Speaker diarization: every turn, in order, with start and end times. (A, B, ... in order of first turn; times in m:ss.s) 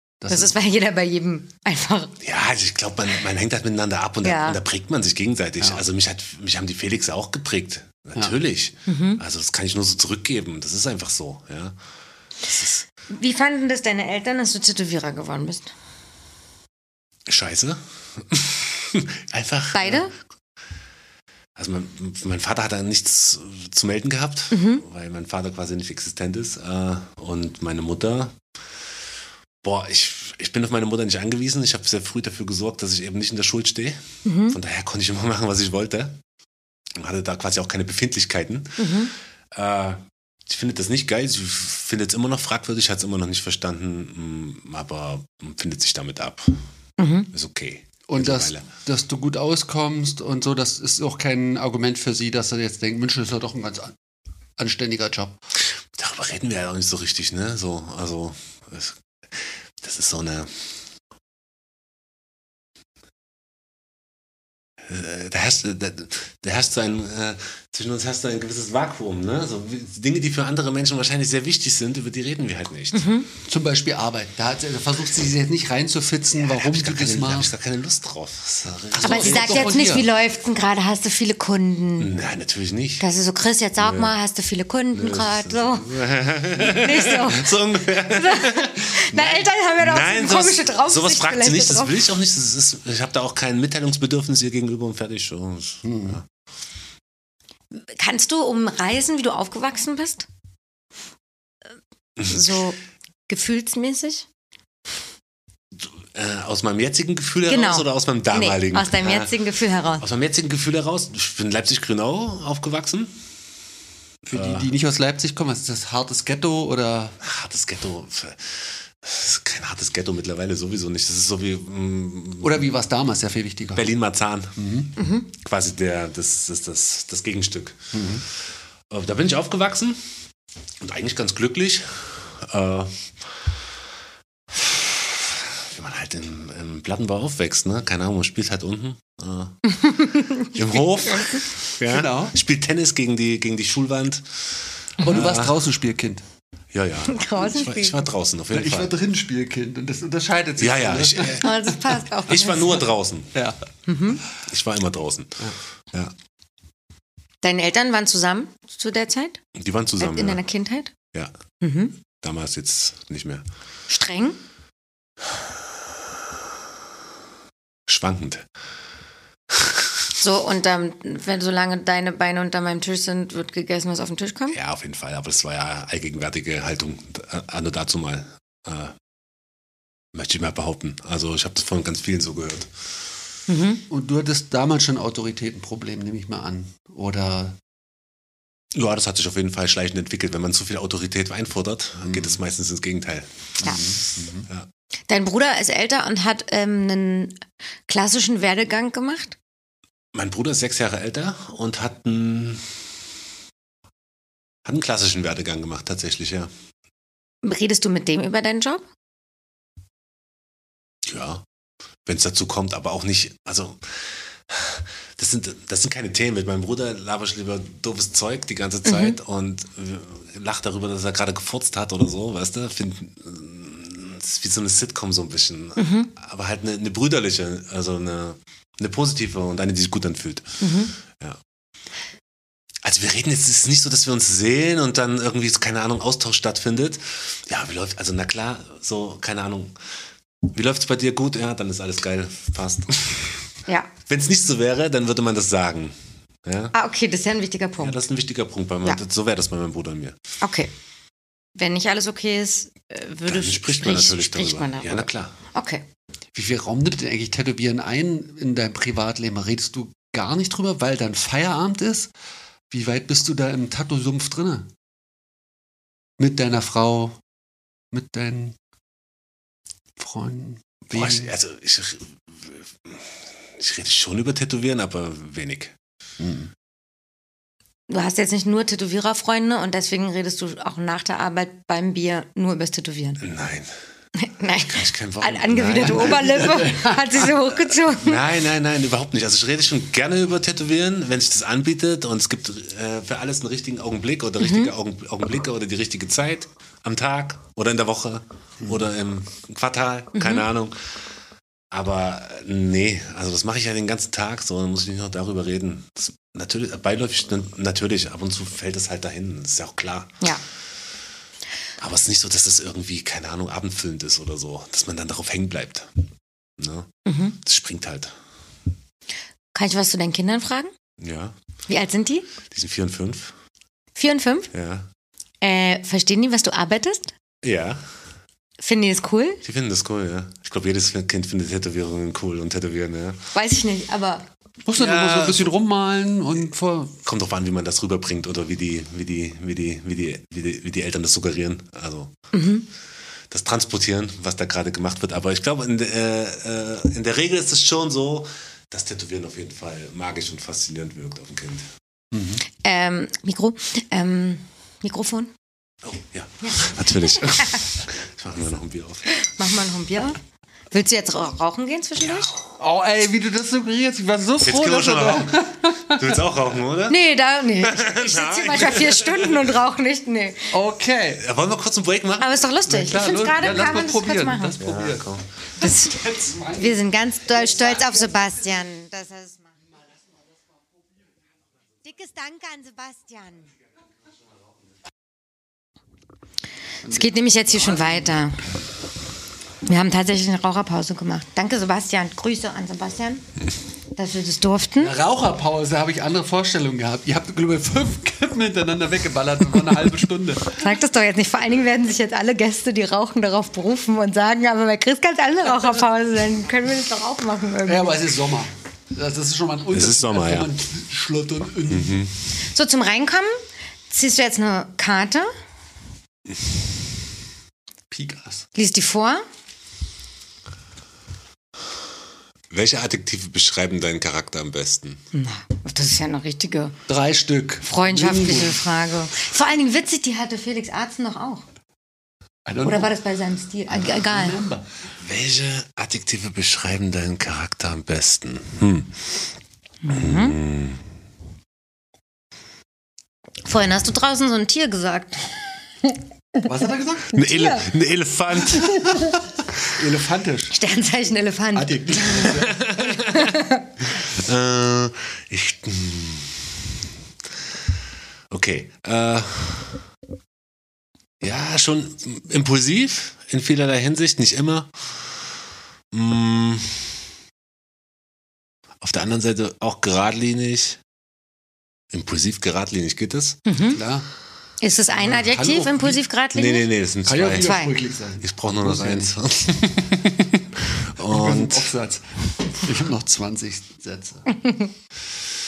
0:00.2-0:00.6 A
0:00.3-0:02.1 B
0:02.2-0:11.8 C
0:04.2-0:04.6 B
0:08.9-0:09.2 B
0:12.4-0:12.8 C
0:13.1-0:15.7 B
0:17.3-0:20.1 C
0:19.7-0:20.1 B
0:21.6-0:28.4 C
0:24.5-0:24.8 B
0:29.6-0:36.2 C
0:34.2-0:34.6 B
0:37.0-0:46.6 C
0:38.8-0:39.1 B
0:47.0-0:47.3 B
0:47.3-0:48.6 C
0:48.1-0:53.9 A
0:54.6-0:55.4 A
0:55.9-1:00.7 C
1:04.8-1:13.1 C
1:12.9-1:13.3 B
1:13.4-1:17.5 A
1:16.4-1:19.9 C
1:18.9-1:20.1 A
1:19.0-1:22.1 B
1:22.0-1:23.0 C
1:23.0-1:25.9 B
1:23.8-1:24.1 C
1:24.9-1:36.2 C
1:26.6-1:32.0 B
1:35.8-1:36.2 A
1:37.8-1:40.3 B
1:42.2-1:44.3 B
1:45.7-1:49.3 C
1:47.5-1:50.0 B
1:50.0-1:53.2 C
1:54.3-1:57.2 A
1:54.3-1:54.7 C
1:57.2-2:02.6 C
2:02.4-2:03.9 A
2:03.7-2:04.6 C
2:04.6-2:04.9 A
2:05.0-2:05.3 B
2:05.3-2:08.0 C
2:07.9-2:08.2 A
2:08.9-2:10.0 C
2:10.8-2:13.5 C
2:14.5-2:19.7 C
2:19.8-2:21.4 B
2:20.4-2:25.6 C
2:21.8-2:22.4 A
2:25.0-2:26.2 A
2:26.7-2:28.9 C
2:27.0-2:28.1 B
2:28.5-2:31.8 A
2:30.6-2:31.7 C
2:31.4-2:32.8 B
2:32.3-2:33.3 C
2:33.3-2:33.6 A
2:33.9-2:34.2 B
2:34.4-2:36.1 C
2:37.4-2:39.4 B
2:39.5-2:40.4 C
2:40.0-2:40.9 B
2:41.6-2:41.9 B
2:42.1-2:43.4 C
2:43.9-2:44.4 B
2:47.9-2:48.5 C
2:49.5-2:50.0 C
2:50.2-2:54.6 B
2:54.5-2:58.9 C
3:00.1-3:02.7 C
3:03.5-3:03.8 B
3:03.9-3:07.6 A
3:08.7-3:13.6 C
3:12.1-3:12.4 A
3:13.6-3:14.5 A
3:15.1-3:19.4 B
3:20.1-3:22.8 C
3:24.6-3:26.5 C
3:27.4-3:28.8 B
3:31.0-3:31.4 C
3:32.0-3:51.4 C
3:38.8-3:39.2 B
3:45.8-3:46.1 B
3:50.6-3:50.9 B
3:52.8-3:59.7 C
4:00.5-4:03.4 C
4:04.1-4:06.7 C
4:06.7-4:08.0 B
4:07.8-4:10.2 C
4:10.4-4:10.7 B
4:11.6-4:15.8 B
4:13.3-4:15.3 C
4:16.3-4:22.1 A
4:22.7-4:24.7 A
4:26.2-4:27.2 A
4:27.9-4:28.6 A
4:30.0-4:31.3 A
4:30.9-4:35.7 C
4:36.2-4:36.5 A
4:37.9-4:43.2 B
4:43.2-4:43.7 C
4:44.2-4:48.2 B
4:44.6-4:46.6 C
4:45.8-4:47.2 A
4:47.8-5:01.0 C
4:54.4-4:54.7 B
5:00.1-5:00.4 B
5:01.7-5:10.2 C
5:11.8-5:15.9 C
5:16.6-5:18.1 C
5:17.0-5:17.4 B
5:19.5-5:20.7 B
5:21.0-5:21.3 C
5:21.7-5:22.3 B
5:22.5-5:23.3 C
5:24.0-5:24.5 B
5:24.5-5:24.9 C
5:25.4-5:27.1 B
5:27.4-5:27.8 C
5:28.6-5:29.4 B
5:29.4-5:33.2 C
5:33.3-5:34.3 B
5:34.6-5:37.0 A
5:34.8-5:35.5 C
5:37.0-5:42.1 C
5:42.3-5:42.6 B
5:43.3-5:51.7 C
5:52.1-5:52.4 A
5:52.6-5:55.3 B
5:55.8-5:59.1 C
5:56.4-5:56.7 B
5:59.1-6:00.2 B
6:00.7-6:02.3 B
6:02.0-6:02.4 C
6:02.6-6:06.2 A
6:04.4-6:07.0 C
6:06.9-6:10.5 B
6:07.6-6:09.6 C
6:10.5-6:11.2 A
6:11.2-6:12.4 C
6:12.2-6:14.6 B
6:12.7-6:15.1 A
6:14.6-6:15.3 C
6:15.6-6:19.4 B
6:15.6-6:18.1 A
6:21.8-6:23.5 B
6:26.8-6:28.3 A
6:26.8-6:28.4 B
6:29.6-6:33.2 B
6:34.0-6:34.9 B
6:34.8-6:40.7 A
6:40.5-6:48.0 B
6:47.6-6:52.1 A
6:49.7-6:50.5 C
6:51.7-6:52.1 C
6:52.5-6:53.3 B
6:53.9-6:55.3 B
6:57.9-6:58.5 A
6:58.6-6:59.2 B
7:02.5-7:05.0 C
7:05.1-7:06.8 B
7:06.9-7:08.7 A
7:07.6-7:11.4 B
7:12.4-7:12.9 A
7:12.6-7:14.4 B
7:13.7-7:14.8 A
7:15.0-7:19.0 C
7:19.8-7:20.4 B
7:19.9-7:20.8 C
7:23.4-7:26.4 B
7:26.4-7:27.2 A
7:27.1-7:29.1 C
7:27.1-7:27.7 B
7:28.6-7:30.5 A
7:28.6-7:29.2 B
7:30.5-7:33.7 B
7:31.5-7:32.7 A
7:32.3-7:36.8 C
7:38.3-7:39.8 C
7:41.2-7:45.3 C
7:45.9-7:47.0 C
7:48.8-7:50.8 C
7:51.9-7:53.4 C
7:53.4-7:53.8 B
7:53.7-7:54.1 A
7:54.6-7:56.7 B
7:54.9-7:56.0 A
7:56.3-7:57.6 C
7:57.0-7:59.1 A
7:57.4-7:57.7 B
7:58.2-8:01.7 C
8:01.0-8:04.3 A